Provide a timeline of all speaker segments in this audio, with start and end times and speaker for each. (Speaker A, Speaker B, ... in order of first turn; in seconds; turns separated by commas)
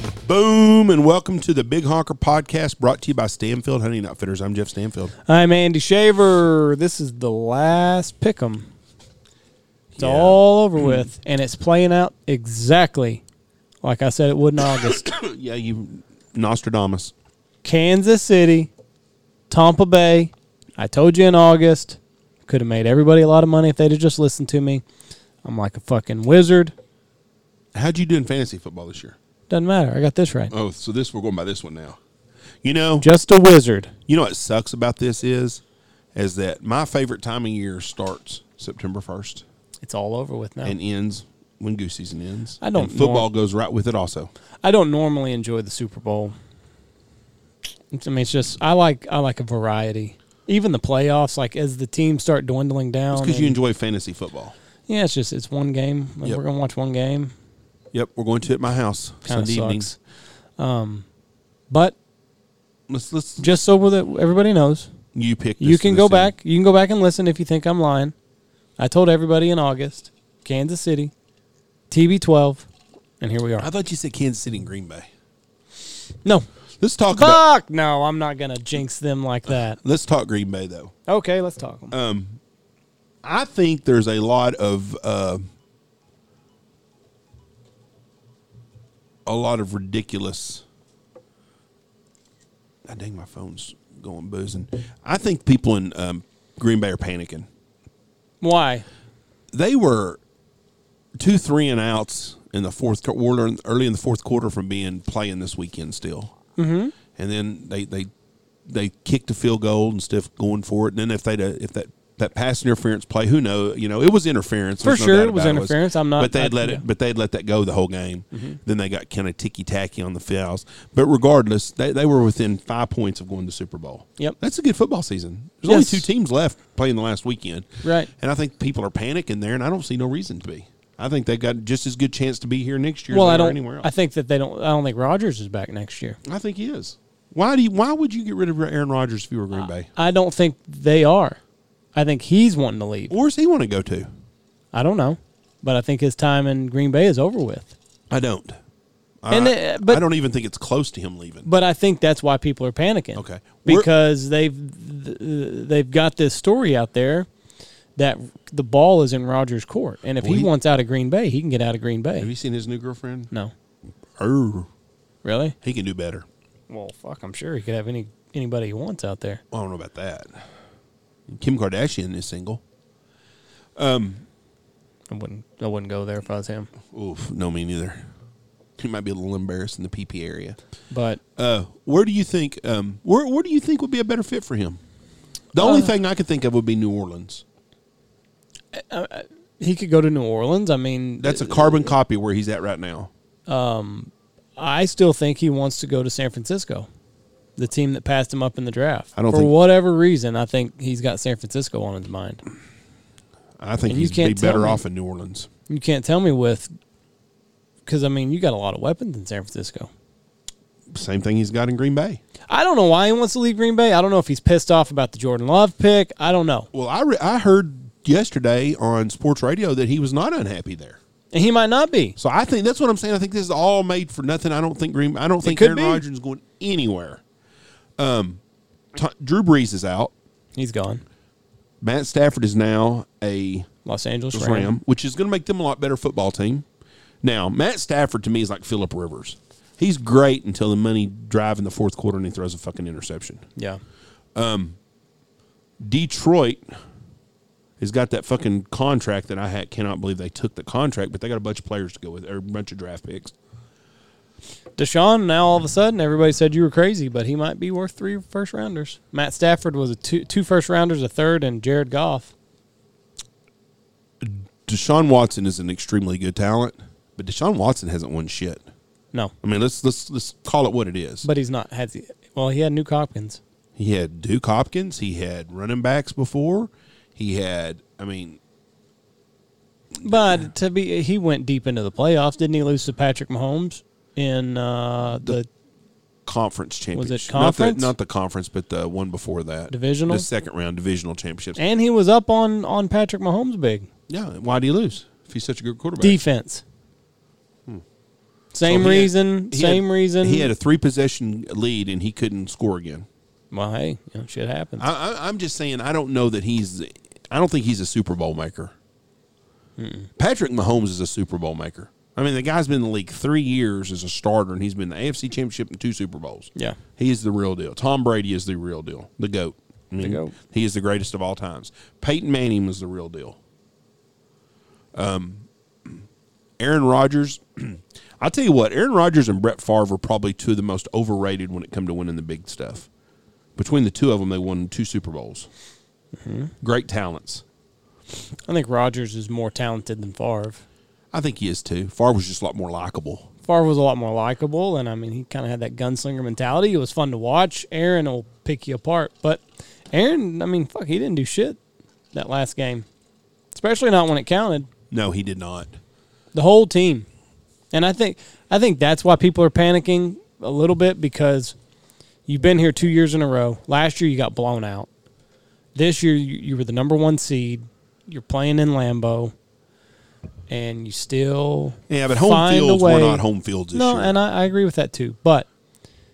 Speaker A: 0.2-5.1, Speaker B: 5.2-8.7, Speaker A: 9.9-11.1, Speaker B: 10.0-13.2, Speaker B: 13.8-15.1, Speaker A: 14.7-17.1, Speaker B: 17.6-18.7, Speaker B: 19.5-24.8, Speaker B: 25.4-26.7, Speaker A: 27.7-29.1, Speaker B: 29.5-30.5, Speaker A: 30.5-32.0, Speaker A: 32.6-33.1, Speaker B: 33.0-33.9, Speaker A: 34.1-35.6, Speaker A: 36.1-39.4, Speaker B: 39.8-40.8, Speaker A: 40.6-44.3, Speaker B: 42.6-43.3, Speaker B: 44.6-46.3, Speaker B: 47.9-53.6, Speaker A: 53.1-54.5, Speaker B: 54.9-57.3, Speaker A: 57.9-59.9, Speaker B: 59.2-60.0, Speaker B: 60.6-61.0, Speaker B: 61.7-62.0, Speaker A: 62.9-63.5, Speaker B: 63.4-64.9, Speaker A: 65.1-66.3, Speaker B: 65.6-68.1, Speaker B: 68.8-71.1, Speaker B: 71.9-72.7, Speaker B: 73.2-73.7, Speaker A: 73.6-75.1, Speaker A: 76.8-77.4, Speaker B: 77.1-79.8, Speaker A: 79.8-80.9, Speaker B: 81.1-81.9, Speaker A: 81.9-82.4, Speaker A: 83.2-85.4, Speaker A: 89.2-90.6, Speaker A: 92.8-97.5, Speaker B: 98.4-98.8, Speaker A: 99.5-100.2, Speaker A: 101.2-106.3, Speaker B: 106.6-106.9, Speaker A: 107.1-108.1, Speaker A: 108.7-133.9, Speaker B: 114.8-116.8, Speaker B: 118.3-118.6, Speaker B: 125.7-126.1, Speaker B: 127.8-128.1, Speaker B: 133.1-136.2, Speaker A: 136.2-139.9, Speaker B: 139.9-141.4, Speaker B: 141.9-143.1, Speaker A: 143.1-144.1, Speaker B: 144.7-147.7, Speaker A: 148.1-148.6, Speaker A: 149.2-151.5, Speaker B: 149.3-150.0, Speaker B: 151.4-157.3, Speaker A: 153.2-153.9, Speaker B: 157.9-162.3, Speaker A: 160.2-160.5, Speaker A: 162.2-163.3, Speaker A: 164.2-164.7, Speaker B: 165.2-165.5, Speaker A: 165.6-166.2, Speaker B: 166.7-169.4, Speaker A: 169.5-170.4, Speaker A: 171.3-172.6, Speaker A: 173.8-174.2, Speaker B: 175.1-176.7, Speaker A: 176.9-178.1, Speaker A: 178.8-180.6, Speaker B: 180.9-181.2, Speaker A: 181.3-184.8, Speaker A: 185.5-187.4, Speaker B: 185.6-185.9, Speaker B: 188.7-191.9, Speaker A: 191.2-193.1, Speaker B: 193.5-196.9, Speaker B: 197.6-202.4, Speaker A: 199.1-199.5, Speaker A: 203.6-205.5, Speaker B: 203.9-204.8, Speaker B: 205.7-206.7, Speaker B: 207.8-209.9, Speaker A: 210.9-212.2, Speaker B: 212.5-216.7, Speaker A: 216.7-221.0, Speaker B: 221.3-222.2, Speaker A: 222.2-227.2, Speaker B: 225.4-226.0, Speaker A: 228.0-228.4, Speaker A: 228.9-230.1, Speaker B: 230.5-231.0, Speaker A: 231.8-233.7, Speaker B: 233.8-234.7, Speaker A: 234.3-236.6, Speaker A: 237.2-243.4, Speaker A: 244.3-244.8, Speaker A: 245.8-246.7, Speaker A: 247.8-253.3, Speaker B: 254.8-262.3, Speaker A: 264.2-268.6, Speaker A: 269.4-271.3, Speaker B: 271.2-273.4, Speaker A: 273.8-278.4, Speaker A: 280.0-280.4, Speaker B: 280.0-285.5, Speaker A: 286.2-291.6, Speaker B: 286.9-287.9, Speaker B: 289.7-290.3, Speaker B: 291.6-293.9, Speaker A: 294.1-296.2, Speaker B: 296.0-296.6, Speaker B: 298.5-300.5, Speaker A: 298.6-303.1, Speaker B: 303.5-304.9, Speaker A: 304.8-308.7, Speaker B: 309.8-310.1, Speaker A: 310.2-323.4, Speaker B: 320.0-320.3, Speaker A: 324.9-326.0, Speaker A: 326.6-332.9, Speaker A: 333.6-335.5, Speaker B: 336.2-336.5, Speaker A: 336.6-337.4, Speaker B: 338.5-340.6, Speaker A: 341.1-343.3, Speaker B: 343.4-351.6, Speaker B: 352.1-352.9, Speaker B: 353.5-354.7, Speaker A: 354.9-355.8, Speaker B: 356.3-357.1, Speaker B: 357.7-361.5, Speaker B: 362.3-364.9, Speaker B: 365.7-369.3, Speaker B: 370.5-375.5, Speaker A: 371.9-374.1